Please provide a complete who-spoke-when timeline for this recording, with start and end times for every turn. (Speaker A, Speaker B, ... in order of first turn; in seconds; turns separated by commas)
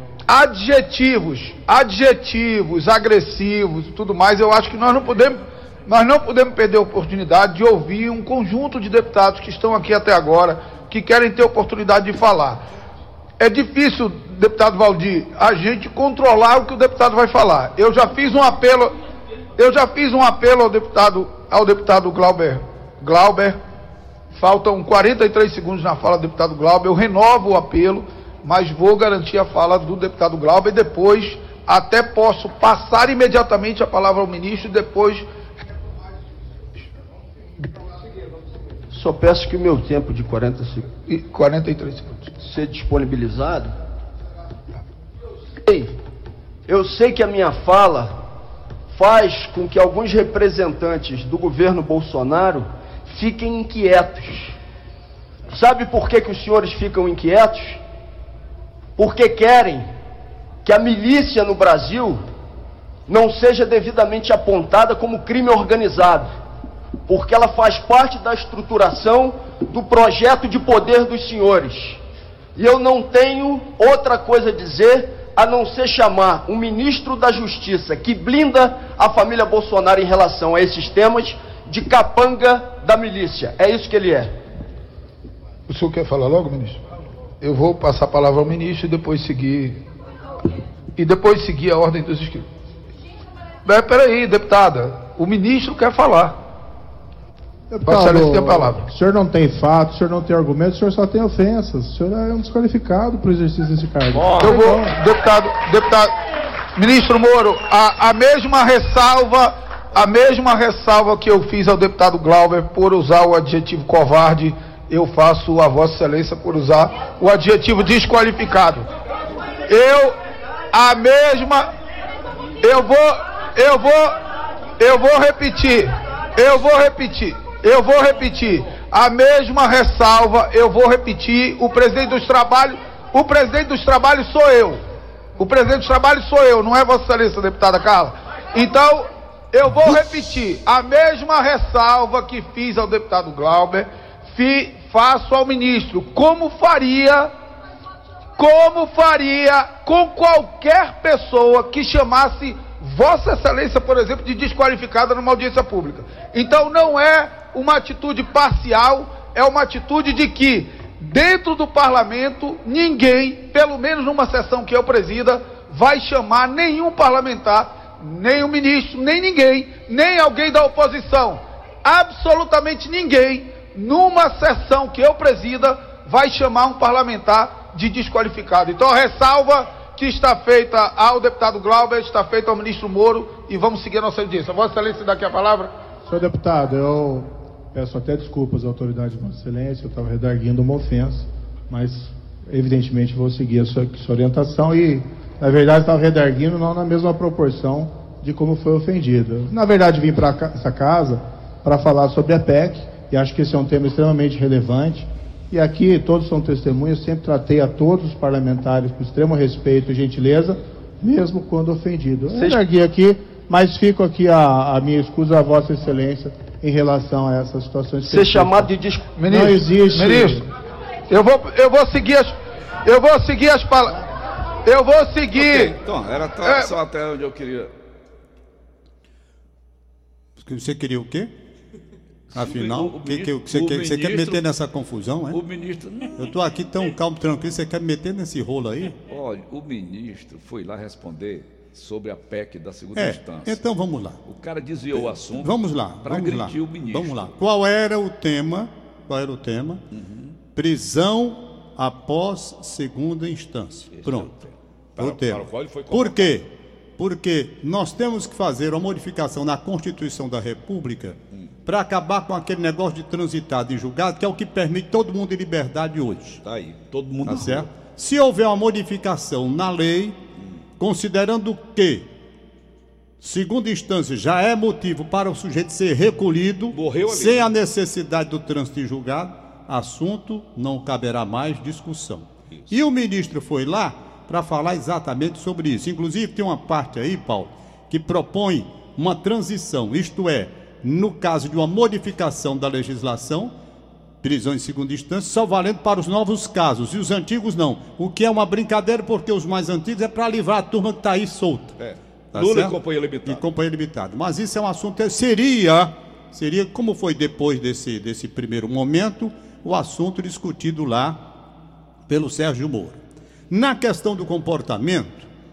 Speaker A: 0.3-12.6, Speaker A: 13.4-19.0, Speaker A: 19.6-23.6, Speaker A: 24.4-35.3, Speaker B: 38.9-40.9, Speaker A: 41.1-42.3, Speaker B: 42.4-43.7, Speaker B: 45.7-46.0, Speaker B: 46.7-48.2, Speaker B: 48.9-54.5, Speaker B: 55.5-57.8, Speaker B: 59.0-59.9, Speaker B: 60.6-62.2, Speaker B: 63.1-66.3, Speaker B: 67.1-72.0, Speaker B: 72.6-84.4, Speaker A: 85.7-86.8, Speaker A: 87.4-89.8, Speaker A: 91.0-92.5, Speaker A: 93.7-96.4, Speaker C: 97.7-105.0, Speaker A: 97.8-98.8, Speaker A: 104.3-106.2, Speaker A: 106.8-118.9, Speaker A: 119.7-120.2, Speaker A: 120.7-121.7, Speaker A: 122.6-124.2, Speaker A: 124.8-134.8, Speaker A: 135.4-147.3, Speaker A: 148.4-185.7, Speaker C: 186.1-218.7, Speaker B: 212.3-212.6, Speaker B: 218.0-219.2, Speaker A: 219.2-220.4, Speaker C: 219.3-220.5, Speaker A: 221.1-224.0, Speaker A: 224.7-225.8, Speaker D: 225.3-227.7, Speaker A: 226.4-226.7, Speaker E: 230.4-231.3, Speaker D: 232.3-234.4, Speaker E: 232.3-235.4, Speaker D: 235.3-236.3, Speaker E: 236.2-239.0, Speaker D: 239.1-243.6, Speaker E: 242.9-244.2, Speaker D: 244.2-247.3, Speaker E: 244.9-249.8, Speaker D: 249.9-250.3, Speaker E: 250.6-254.3, Speaker D: 253.9-256.4, Speaker E: 255.0-266.4, Speaker D: 266.4-267.7, Speaker E: 267.2-270.2, Speaker E: 270.8-272.1, Speaker E: 273.2-293.5, Speaker D: 276.7-277.5, Speaker E: 294.2-301.8, Speaker D: 301.8-303.4, Speaker E: 302.3-311.2, Speaker E: 312.1-315.3